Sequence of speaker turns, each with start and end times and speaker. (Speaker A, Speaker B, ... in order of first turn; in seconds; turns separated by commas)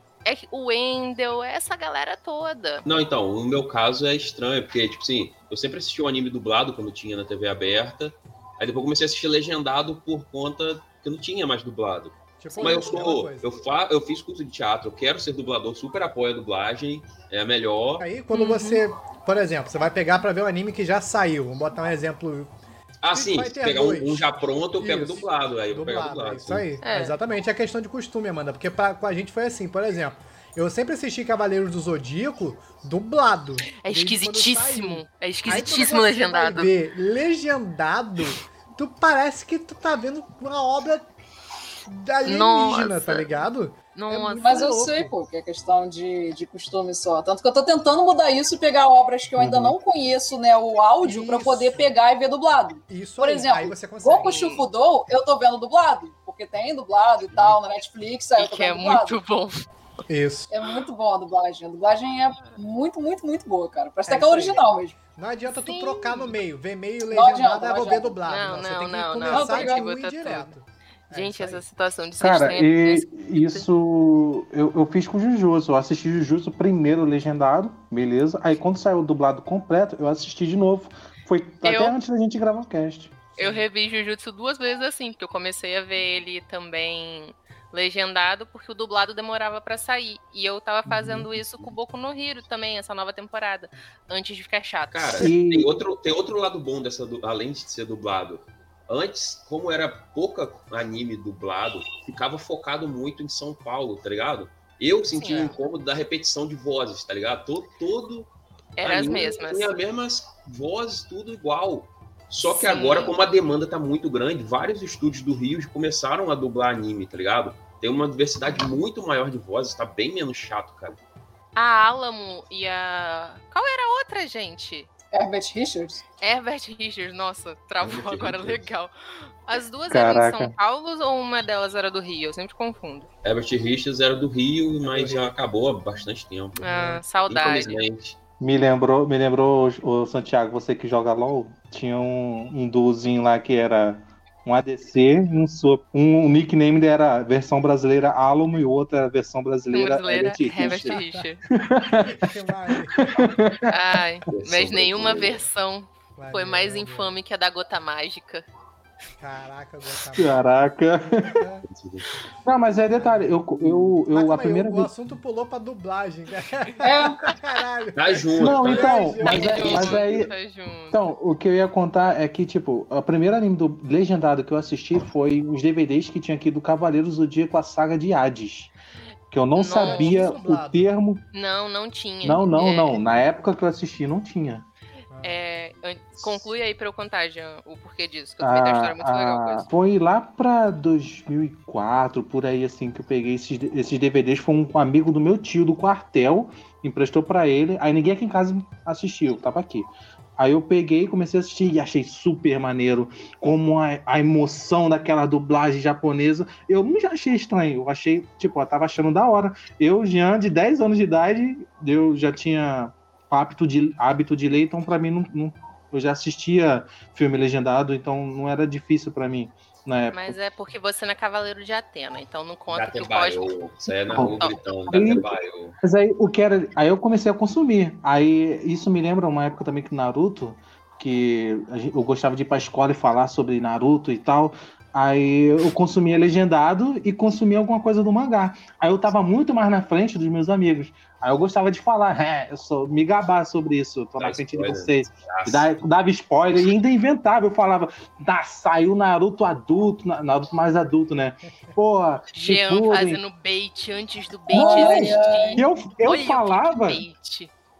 Speaker A: 0.2-2.8, Speaker B: 2.8-18.1, Speaker C: 12.4-13.6, Speaker A: 12.5-13.1, Speaker C: 18.0-22.5, Speaker A: 18.3-18.8, Speaker B: 23.0-26.7, Speaker C: 23.1-24.3, Speaker C: 24.8-41.1, Speaker A: 26.8-27.2, Speaker A: 33.8-36.7, Speaker C: 41.9-45.1, Speaker A: 42.2-43.3, Speaker A: 43.9-44.6, Speaker D: 44.4-59.2, Speaker E: 49.4-49.7, Speaker C: 51.0-51.9, Speaker C: 52.9-54.5, Speaker A: 54.2-54.6, Speaker A: 58.4-59.6, Speaker C: 60.1-60.5, Speaker D: 60.5-65.0, Speaker C: 64.1-71.6, Speaker A: 65.5-66.3, Speaker D: 67.1-68.2, Speaker A: 68.2-70.5, Speaker D: 69.3-69.8, Speaker A: 71.1-73.7, Speaker E: 72.2-83.3, Speaker A: 81.6-82.0, Speaker A: 83.4-95.3, Speaker E: 90.8-91.3, Speaker B: 94.9-108.3, Speaker E: 95.2-95.8, Speaker A: 105.1-105.6, Speaker A: 108.8-109.8, Speaker B: 108.8-121.0, Speaker A: 112.5-113.2, Speaker A: 121.5-124.9, Speaker D: 125.1-126.0, Speaker A: 126.2-133.1, Speaker B: 127.8-128.7, Speaker E: 129.9-130.5, Speaker B: 133.2-136.6, Speaker C: 134.9-135.3, Speaker A: 136.6-137.8, Speaker C: 136.7-137.0, Speaker B: 137.2-138.2, Speaker E: 138.4-151.0, Speaker A: 149.7-151.4, Speaker C: 150.6-151.2, Speaker E: 151.5-153.7, Speaker C: 152.0-153.1, Speaker A: 153.7-158.4, Speaker B: 154.3-155.4, Speaker C: 156.2-157.1, Speaker C: 159.2-160.6, Speaker E: 160.1-161.3, Speaker C: 161.2-161.6, Speaker B: 161.7-162.1, Speaker E: 162.4-164.9, Speaker C: 163.0-163.3, Speaker C: 164.1-169.9, Speaker D: 166.8-167.3, Speaker B: 167.9-170.3, Speaker E: 168.4-170.3, Speaker A: 169.2-171.1, Speaker E: 170.9-178.7, Speaker E: 179.3-181.2, Speaker A: 179.6-180.3, Speaker C: 179.8-180.9, Speaker A: 181.3-182.9, Speaker E: 182.2-184.7, Speaker C: 185.1-185.4, Speaker A: 185.2-189.7, Speaker E: 188.4-220.4, Speaker A: 220.1-224.6, Speaker B: 222.7-225.8, Speaker E: 224.1-225.2, Speaker E: 225.8-253.2, Speaker B: 244.2-245.7, Speaker A: 252.3-257.5, Speaker E: 254.5-257.0, Speaker D: 254.5-255.7